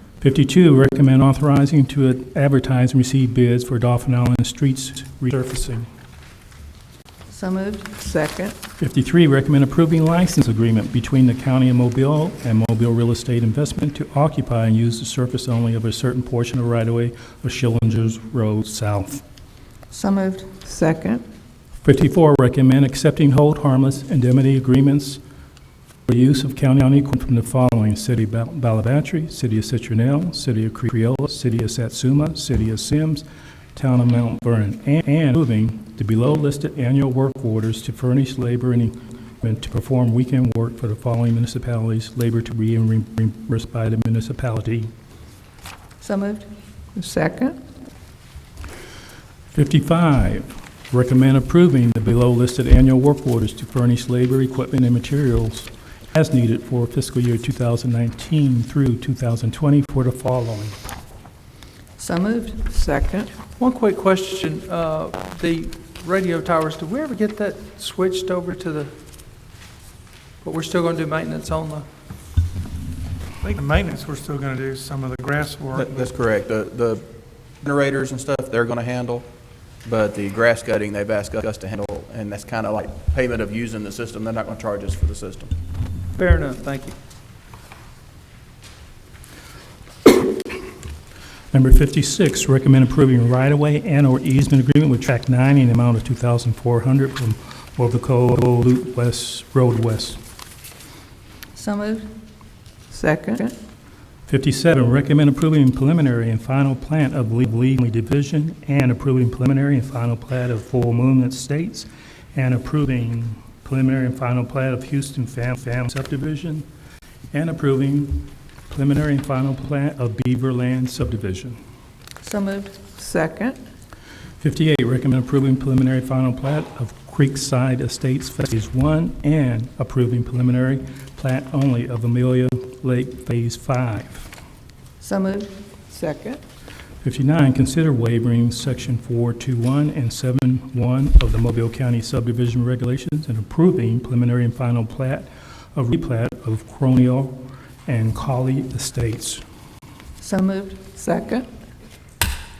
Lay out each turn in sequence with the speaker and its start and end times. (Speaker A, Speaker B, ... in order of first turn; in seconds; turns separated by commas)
Speaker A: 0.2-5.9, Speaker B: 7.3-8.0, Speaker C: 8.0-8.6, Speaker A: 8.8-19.2, Speaker B: 19.9-20.6, Speaker C: 20.7-21.2, Speaker A: 21.8-25.2, Speaker A: 26.1-44.9, Speaker B: 46.0-46.5, Speaker C: 47.0-47.6, Speaker A: 49.5-60.8, Speaker B: 62.0-62.7, Speaker C: 62.7-63.3, Speaker D: 63.6-68.9, Speaker D: 70.4-71.9, Speaker E: 73.4-76.1, Speaker F: 75.7-77.1, Speaker F: 77.6-79.3, Speaker F: 79.8-85.5, Speaker D: 86.2-87.0, Speaker A: 91.5-100.2, Speaker B: 101.5-102.1, Speaker C: 102.9-103.5, Speaker A: 104.3-116.7, Speaker A: 117.3-121.6, Speaker B: 122.2-122.8, Speaker C: 122.9-123.6, Speaker A: 124.4-134.3, Speaker B: 135.0-135.6, Speaker C: 135.9-136.4, Speaker A: 137.0-149.4, Speaker B: 150.2-150.8, Speaker C: 151.0-151.5